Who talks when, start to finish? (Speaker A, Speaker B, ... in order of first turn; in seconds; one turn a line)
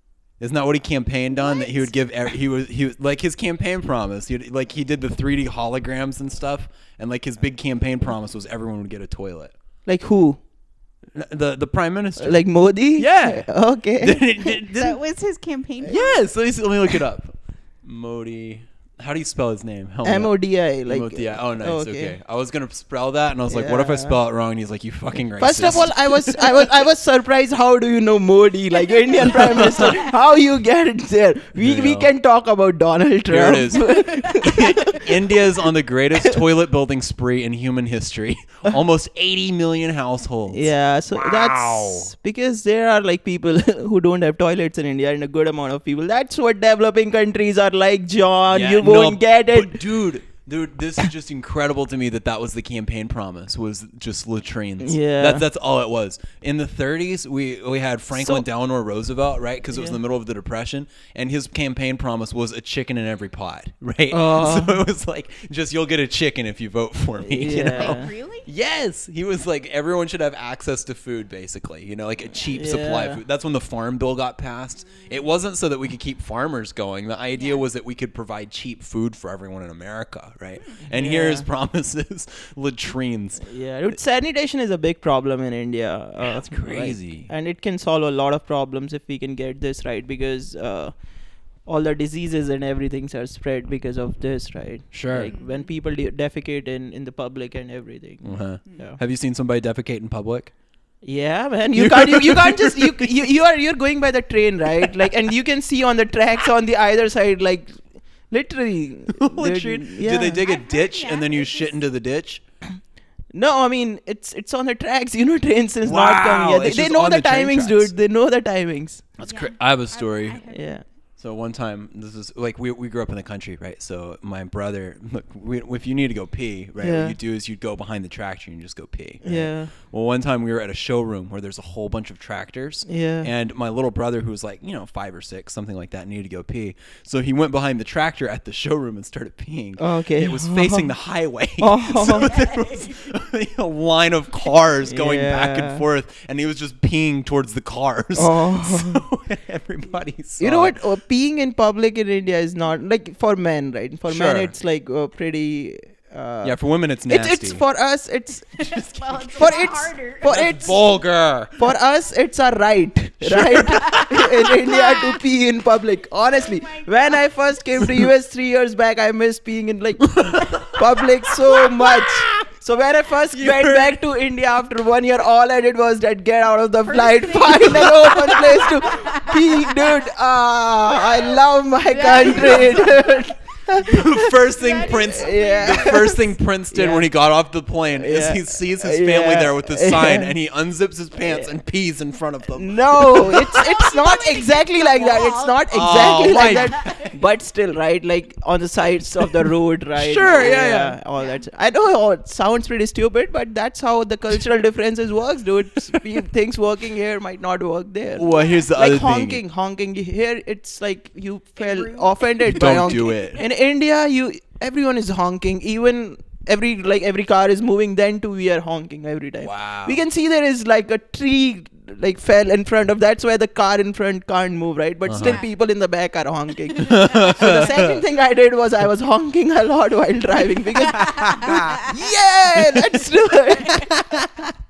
Speaker A: 0.4-9.5
Speaker B: 1.4-1.9
Speaker C: 9.9-10.4
Speaker A: 11.1-12.4
Speaker C: 12.2-14.5
Speaker A: 12.9-15.0
Speaker B: 14.7-16.2
Speaker A: 15.8-20.3
Speaker C: 20.0-22.1
Speaker A: 20.9-26.7
Speaker C: 23.5-24.2
Speaker C: 25.4-35.5
Speaker B: 28.9-30.1
Speaker A: 29.2-30.1
Speaker A: 31.6-32.1
Speaker A: 33.3-42.1
Speaker B: 34.0-34.3
Speaker C: 40.5-49.8
Speaker A: 48.5-83.5
Speaker C: 54.8-55.4
Speaker C: 58.1-58.4
Speaker C: 59.7-60.0
Speaker C: 64.1-64.8
Speaker C: 67.2-68.1
Speaker B: 67.8-68.5
Speaker C: 72.5-73.2
Speaker B: 77.4-77.6
Speaker C: 80.9-81.5
Speaker C: 83.5-90.9
Speaker A: 86.2-87.3
Speaker C: 91.6-99.0
Speaker A: 94.9-95.3
Speaker B: 95.3-95.7
Speaker A: 98.2-100.5
Speaker C: 101.0-110.4
Speaker A: 101.7-103.1
Speaker A: 109.1-112.4
Speaker B: 110.4-111.8
Speaker C: 113.3-119.1
Speaker A: 115.8-117.9
Speaker A: 119.2-120.4
Speaker B: 119.2-120.6
Speaker C: 120.5-120.8
Speaker A: 121.2-150.8
Speaker C: 126.8-127.2
Speaker C: 129.2-129.7
Speaker C: 132.9-133.3
Speaker C: 139.8-140.9
Speaker C: 141.6-142.4
Speaker B: 142.1-143.1
Speaker C: 144.8-145.8
Speaker C: 148.1-149.0
Speaker C: 150.4-158.7
Speaker A: 154.1-154.5
Speaker A: 156.4-157.6
Speaker B: 158.6-160.4
Speaker A: 158.7-159.5
Speaker C: 159.3-160.9
Speaker A: 160.2-161.6
Speaker C: 161.6-184.4
Speaker A: 163.2-164.2
Speaker B: 163.6-165.2
Speaker B: 166.3-167.3
Speaker A: 170.1-170.8
Speaker A: 171.4-172.5
Speaker A: 173.3-174.0
Speaker B: 176.9-180.0
Speaker B: 181.0-183.3
Speaker A: 182.3-182.7
Speaker A: 183.8-193.6
Speaker B: 184.4-186.2
Speaker C: 184.9-187.1
Speaker C: 187.9-190.3
Speaker C: 191.2-191.5
Speaker C: 192.5-234.1
Speaker B: 193.5-197.2
Speaker A: 195.7-196.9
Speaker A: 199.9-200.9
Speaker B: 201.1-201.4
Speaker A: 208.1-209.4
Speaker B: 208.3-208.7
Speaker B: 211.6-213.4
Speaker A: 212.4-213.4
Speaker A: 219.4-220.0
Speaker A: 225.1-225.4
Speaker B: 225.2-225.5
Speaker B: 226.8-227.8
Speaker A: 226.8-228.0
Speaker B: 230.9-231.9
Speaker A: 230.9-231.8
Speaker A: 232.6-232.9
Speaker B: 233.6-233.9
Speaker A: 233.7-234.5